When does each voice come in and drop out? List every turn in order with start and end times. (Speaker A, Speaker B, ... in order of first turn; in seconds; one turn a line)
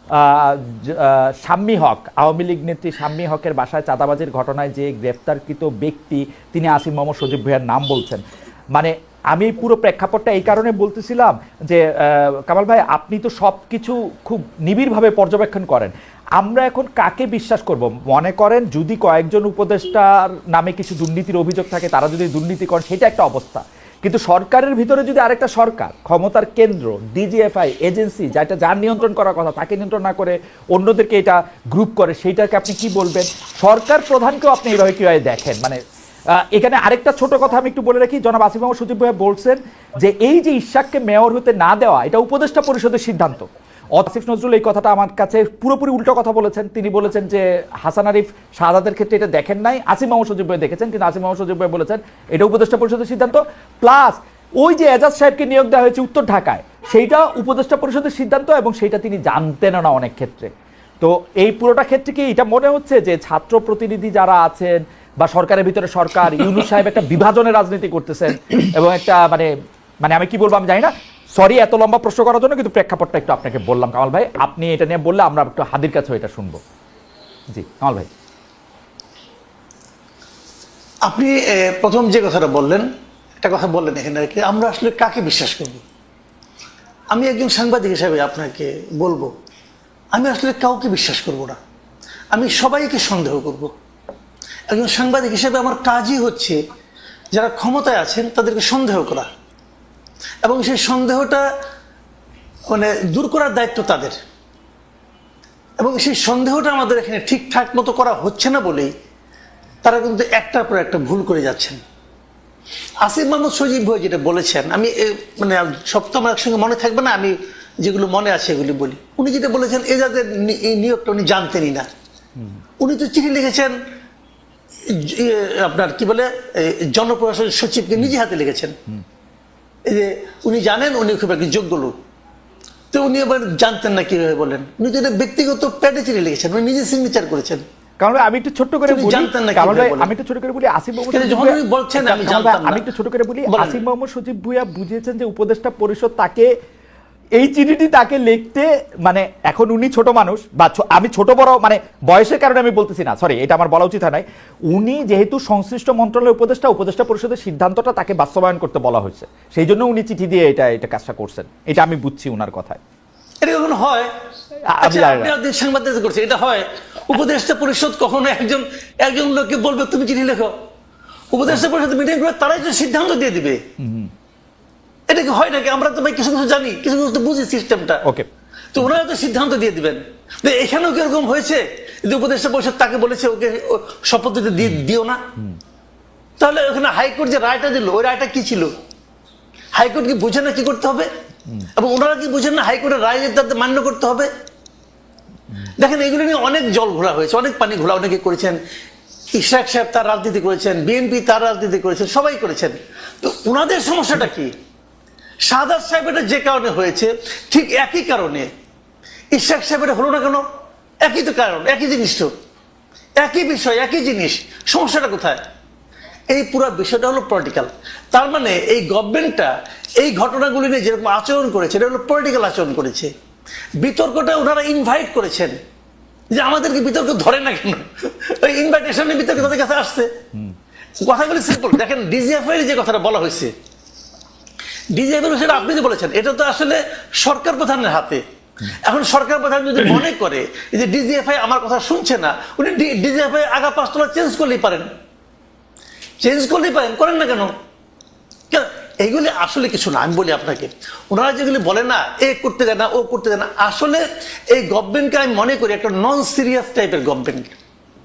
Speaker A: 0.1-8.2
Speaker A: 8.7-35.8
Speaker A: 36.3-60.5
Speaker A: 61.0-69.5
Speaker A: 70.0-76.6
Speaker A: 77.5-78.1
Speaker B: 81.0-82.9
Speaker B: 83.4-85.8
Speaker B: 87.1-89.3
Speaker B: 90.1-91.6
Speaker B: 92.3-93.7
Speaker B: 94.7-96.6
Speaker B: 97.3-99.3
Speaker B: 100.4-101.5
Speaker B: 102.7-104.2
Speaker B: 105.8-108.9
Speaker B: 109.8-111.8
Speaker B: 113.0-121.9
Speaker B: 122.8-123.8
Speaker B: 124.8-128.7
Speaker B: 129.8-131.9
Speaker B: 132.9-137.6
Speaker A: 138.0-146.5
Speaker B: 138.9-140.1
Speaker B: 141.1-142.8
Speaker B: 143.5-143.8
Speaker A: 147.4-162.8
Speaker B: 163.4-164.1
Speaker A: 164.7-165.3
Speaker B: 164.8-170.6
Speaker B: 171.3-173.6
Speaker A: 173.8-174.1
Speaker B: 175.1-178.0
Speaker B: 178.7-185.2
Speaker B: 186.4-188.7
Speaker B: 189.7-191.1
Speaker B: 191.7-194.3
Speaker B: 195.8-198.6
Speaker B: 199.3-204.5
Speaker B: 205.4-208.5
Speaker B: 209.3-210.4
Speaker B: 211.0-212.3
Speaker B: 213.2-215.4
Speaker B: 216.3-223.1
Speaker B: 223.8-225.5
Speaker B: 226.3-230.1
Speaker B: 231.0-233.5
Speaker B: 234.9-244.9
Speaker B: 246.2-247.5
Speaker B: 248.5-257.5